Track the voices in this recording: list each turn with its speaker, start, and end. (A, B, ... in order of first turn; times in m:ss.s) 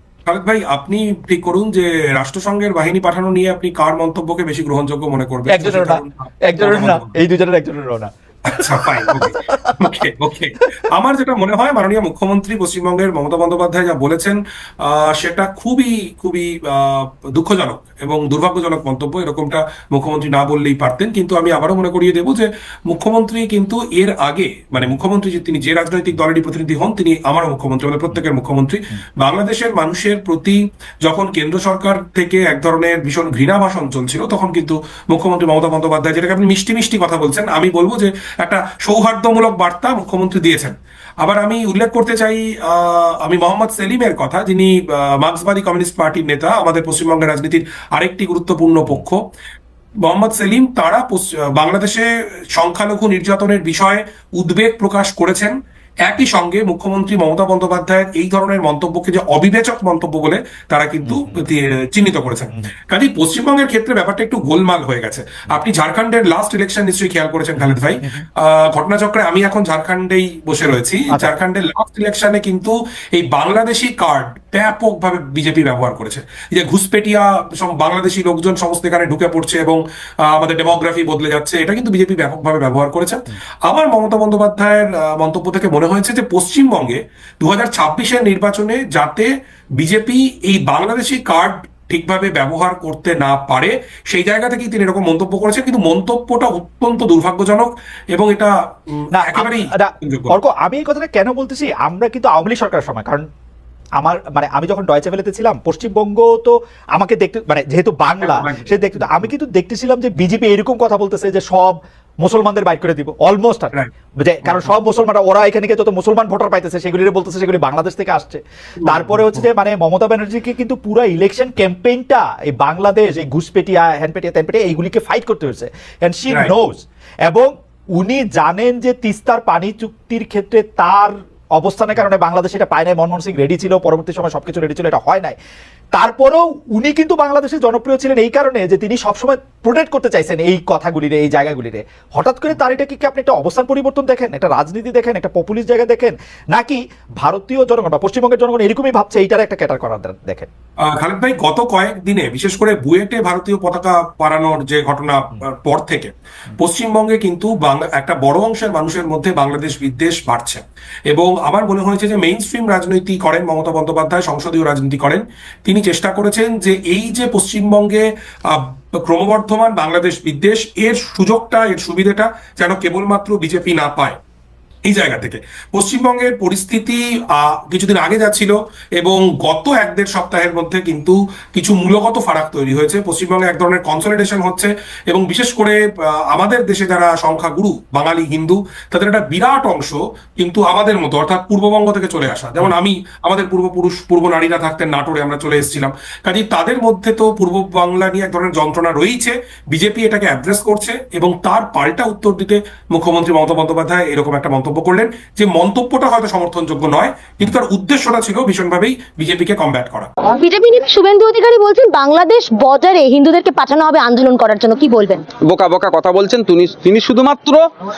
0:00.3-0:07.1 A
0:05.5-0:09.8 B
0:08.4-0:49.2 A
0:50.0-1:40.4 A
1:01.0-1:01.4 B
1:07.6-1:08.2 B
1:39.1-1:43.3 B
1:44.0-2:15.4 B
1:48.2-1:49.2 A
1:58.8-1:59.3 A
2:15.9-2:30.5 B
2:30.8-2:54.2 A
2:54.8-3:30.1 A
3:30.4-3:35.2 C
3:35.4-3:37.6 D